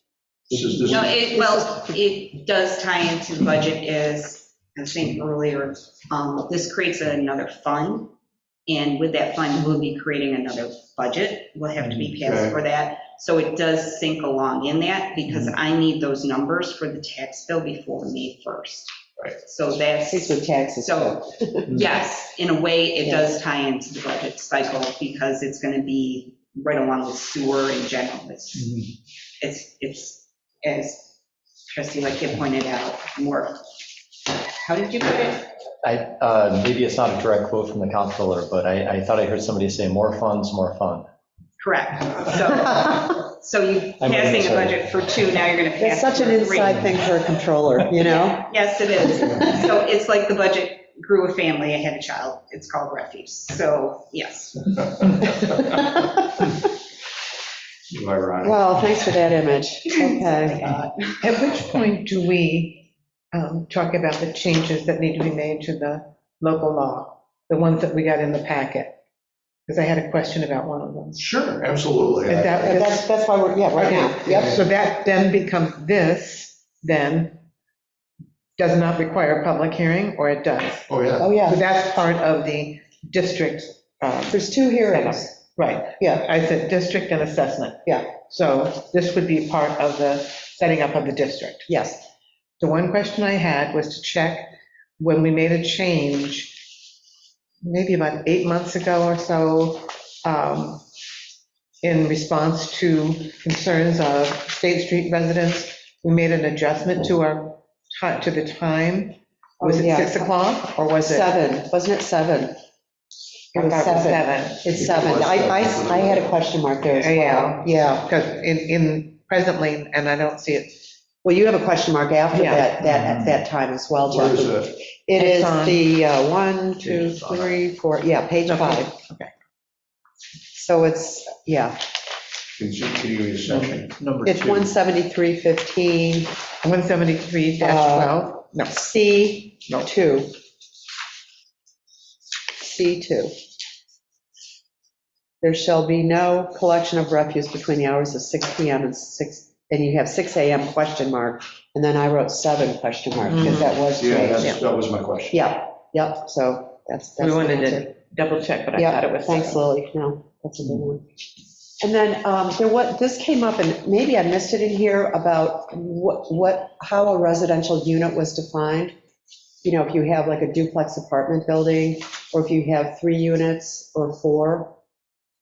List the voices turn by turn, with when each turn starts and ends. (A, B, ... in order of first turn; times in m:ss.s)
0:00.5-0:01.1 A
0:00.9-0:08.1 B
0:08.7-0:28.6 B
0:12.2-0:12.6 A
0:20.1-0:21.6 C
0:29.4-0:31.1 B
0:31.7-0:33.6 B
0:34.6-0:35.4 B
0:35.8-0:41.1 D
0:41.6-0:47.0 B
0:44.0-0:44.8 D
0:45.8-0:48.4 C
0:48.4-0:55.2 B
0:49.2-0:49.6 A
0:55.4-0:55.9 A
0:57.9-0:58.6 A
0:58.4-1:00.8 C
1:00.5-1:01.1 B
1:01.2-1:09.0 E
1:09.7-1:11.2 E
1:11.2-1:12.9 A
1:12.3-1:13.0 E
1:12.6-1:14.6 C
1:13.8-1:17.4 E
1:14.3-1:14.6 A
1:18.6-1:31.7 E
1:20.9-1:21.3 A
1:21.2-1:21.6 C
1:24.3-1:25.4 C
1:26.0-1:26.2 C
1:27.8-1:28.1 C
1:31.7-1:32.1 C
1:32.6-1:36.6 E
1:37.6-1:40.8 E
1:41.8-1:51.3 E
1:49.6-1:52.6 C
1:53.5-1:54.6 E
1:53.5-1:58.0 C
1:54.7-1:56.4 A
1:57.0-2:00.8 E
2:01.2-2:08.9 C
2:02.3-2:02.7 E
2:03.0-2:03.3 D
2:04.1-2:04.8 A
2:05.2-2:05.8 E
2:06.8-2:07.5 D
2:08.5-2:09.3 E
2:10.5-2:11.8 C
2:12.6-2:13.9 A
2:13.5-2:14.7 D
2:14.2-2:16.3 C
2:16.6-2:18.8 E
2:17.6-2:20.3 C
2:22.6-2:23.3 C
2:25.4-2:34.5 C
2:33.3-2:33.7 E
2:33.4-2:35.4 A
2:35.3-2:37.9 C
2:37.2-2:39.6 E
2:38.7-2:41.0 C
2:41.8-2:48.9 C
2:49.6-2:54.7 C